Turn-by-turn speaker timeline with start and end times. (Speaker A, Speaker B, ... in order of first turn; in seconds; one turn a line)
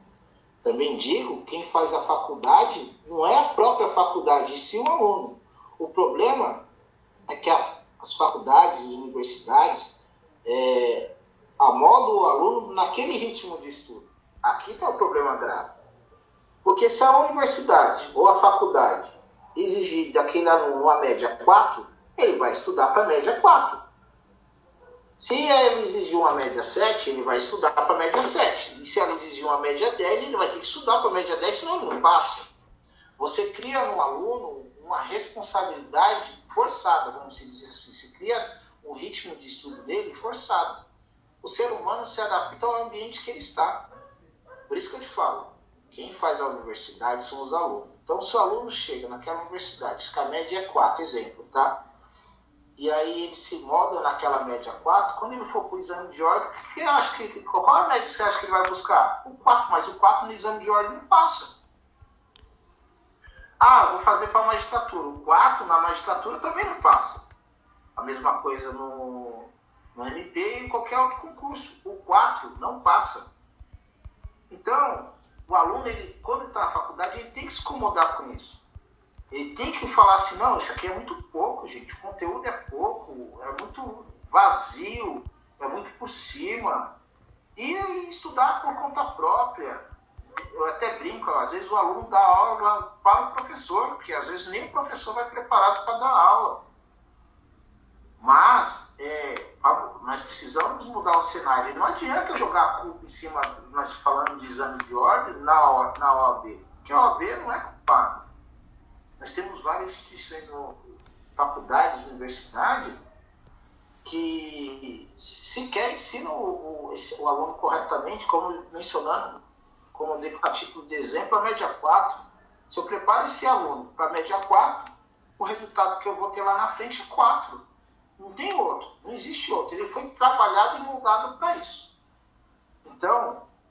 Speaker A: 0.6-6.7
Speaker A: 7.3-15.7
Speaker A: 16.6-23.8
Speaker A: 25.2-32.5
Speaker A: 33.2-40.8
Speaker A: 41.4-43.9
Speaker A: 44.7-51.8
Speaker A: 52.8-61.6
Speaker A: 63.6-67.3
Speaker A: 68.0-73.3
Speaker A: 74.5-78.6
Speaker A: 79.3-87.0
Speaker A: 87.6-89.9
Speaker A: 90.5-96.7
Speaker A: 98.2-108.2
Speaker A: 109.2-110.8
Speaker A: 111.3-113.0
Speaker A: 114.0-119.4
Speaker A: 119.9-127.6
Speaker A: 128.2-131.9
Speaker A: 132.8-133.4